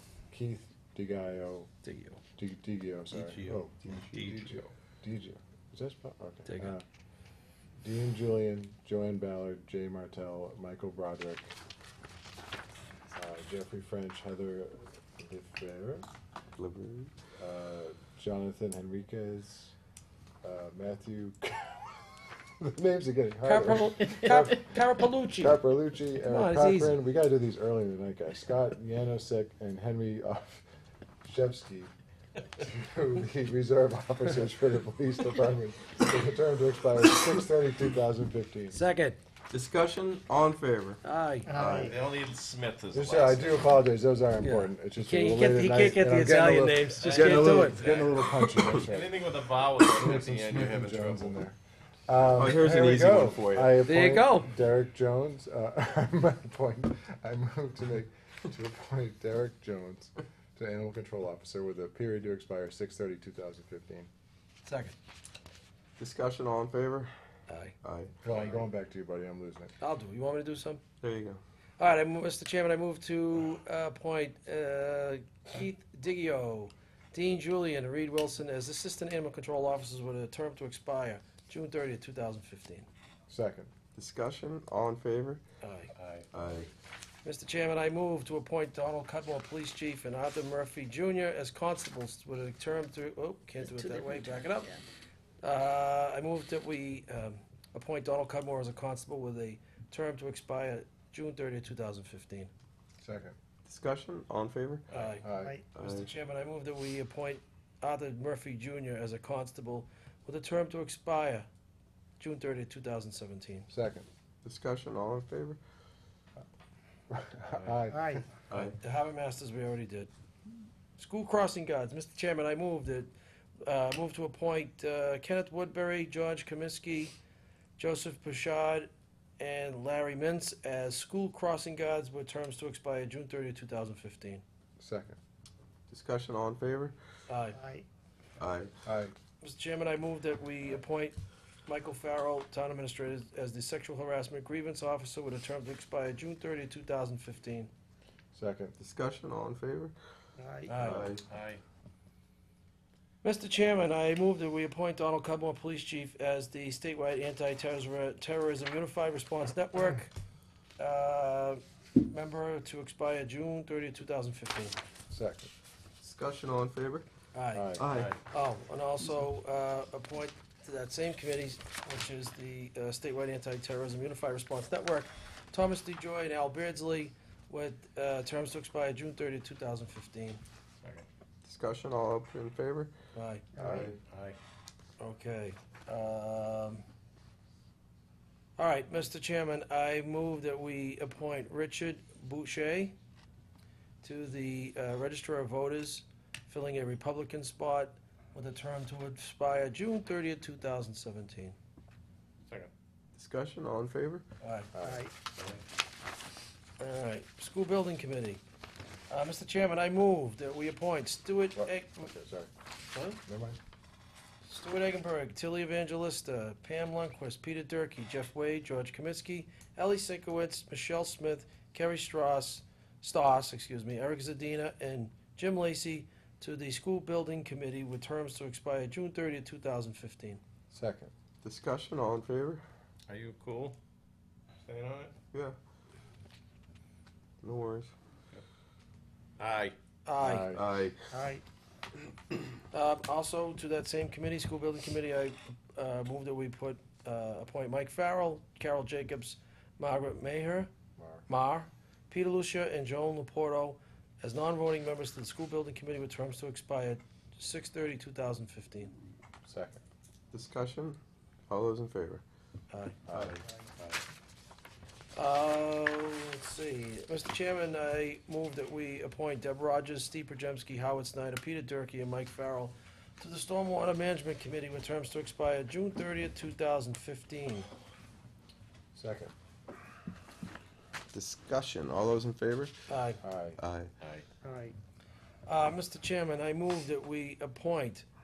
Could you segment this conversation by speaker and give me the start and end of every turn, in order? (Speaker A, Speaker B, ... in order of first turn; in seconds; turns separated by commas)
Speaker A: 0.3-1.7, Speaker B: 1.8-2.2, Speaker A: 2.4-6.8, Speaker C: 3.1-3.6, Speaker C: 4.1-4.7, Speaker B: 6.5-6.8, Speaker A: 7.8-11.5, Speaker A: 13.1-16.1, Speaker D: 16.6-17.1, Speaker A: 17.4-19.8, Speaker A: 20.4-22.1, Speaker A: 22.6-30.6, Speaker B: 23.4-25.6, Speaker B: 26.2-27.0, Speaker A: 31.2-31.9, Speaker A: 32.5-38.8, Speaker B: 38.7-39.2, Speaker D: 39.5-42.0, Speaker B: 41.0-41.5, Speaker E: 41.5-42.0, Speaker C: 41.7-43.7, Speaker A: 42.9-64.1, Speaker B: 44.4-47.9, Speaker C: 47.0-51.3, Speaker D: 47.0-47.7, Speaker D: 48.4-48.9, Speaker D: 51.0-51.4, Speaker D: 52.3-53.8, Speaker B: 53.8-54.5, Speaker B: 64.6-65.0, Speaker D: 66.0-67.1, Speaker B: 67.5-67.7, Speaker D: 67.8-68.2, Speaker A: 68.2-69.7, Speaker C: 68.3-68.6, Speaker B: 69.8-70.8, Speaker D: 71.0-71.4, Speaker B: 71.8-82.9, Speaker A: 83.3-83.7, Speaker D: 84.0-85.4, Speaker B: 85.6-85.9, Speaker C: 86.0-86.3, Speaker D: 86.3-86.7, Speaker B: 87.2-94.8, Speaker B: 95.4-102.5, Speaker A: 103.0-103.4, Speaker D: 103.7-104.9, Speaker B: 104.9-105.3, Speaker A: 105.2-105.6, Speaker E: 105.3-105.6, Speaker D: 105.7-106.1, Speaker B: 105.8-111.5, Speaker B: 112.2-113.7, Speaker A: 113.7-114.1, Speaker D: 114.4-115.6, Speaker A: 117.1-118.2, Speaker E: 117.9-118.2, Speaker D: 118.5-118.8, Speaker B: 118.5-120.1, Speaker B: 121.0-123.1, Speaker B: 123.6-127.1, Speaker B: 127.8-134.4, Speaker A: 134.8-135.2, Speaker D: 135.9-136.9, Speaker B: 137.3-137.6, Speaker E: 137.5-137.9, Speaker D: 138.4-138.7, Speaker A: 138.8-139.1, Speaker B: 139.4-147.7, Speaker A: 148.3-148.7, Speaker D: 148.8-149.9, Speaker E: 150.4-150.7, Speaker B: 150.7-151.1, Speaker D: 150.7-151.2, Speaker C: 151.3-151.6, Speaker B: 153.2-160.1, Speaker B: 160.8-164.8, Speaker A: 165.1-165.5, Speaker D: 166.0-167.1, Speaker B: 167.3-180.4, Speaker A: 167.5-167.9, Speaker D: 167.8-168.1, Speaker C: 167.9-168.2, Speaker D: 181.4-182.9, Speaker B: 183.1-183.5, Speaker E: 183.6-183.9, Speaker A: 183.6-183.9, Speaker D: 183.6-184.0, Speaker C: 184.1-184.4, Speaker B: 185.0-186.8, Speaker B: 188.6-192.9, Speaker B: 194.0-201.6, Speaker D: 203.2-204.2, Speaker B: 204.4-204.8, Speaker A: 204.7-205.0, Speaker E: 204.8-205.1, Speaker C: 205.4-205.6, Speaker B: 206.8-208.4, Speaker B: 209.1-212.1, Speaker A: 211.6-212.5, Speaker B: 212.9-213.2, Speaker A: 213.2-213.6, Speaker B: 214.4-230.4, Speaker A: 230.7-231.1, Speaker D: 231.4-232.6, Speaker C: 233.1-233.8, Speaker C: 234.7-235.1, Speaker D: 237.4-237.9, Speaker C: 239.4-239.8, Speaker B: 240.1-240.5, Speaker A: 240.2-240.6, Speaker D: 240.5-241.0, Speaker E: 241.1-241.4, Speaker B: 242.7-250.7, Speaker A: 251.0-251.3, Speaker B: 251.3-258.9, Speaker A: 259.4-259.8, Speaker D: 260.3-261.0, Speaker D: 261.5-262.2, Speaker B: 262.7-263.0, Speaker A: 263.1-263.4, Speaker D: 263.1-263.4, Speaker C: 263.1-264.0, Speaker B: 265.1-277.7, Speaker A: 278.9-279.3, Speaker D: 281.1-282.8, Speaker B: 282.9-283.2, Speaker A: 283.2-283.6, Speaker D: 283.6-283.9, Speaker E: 284.4-284.8, Speaker B: 285.5-288.1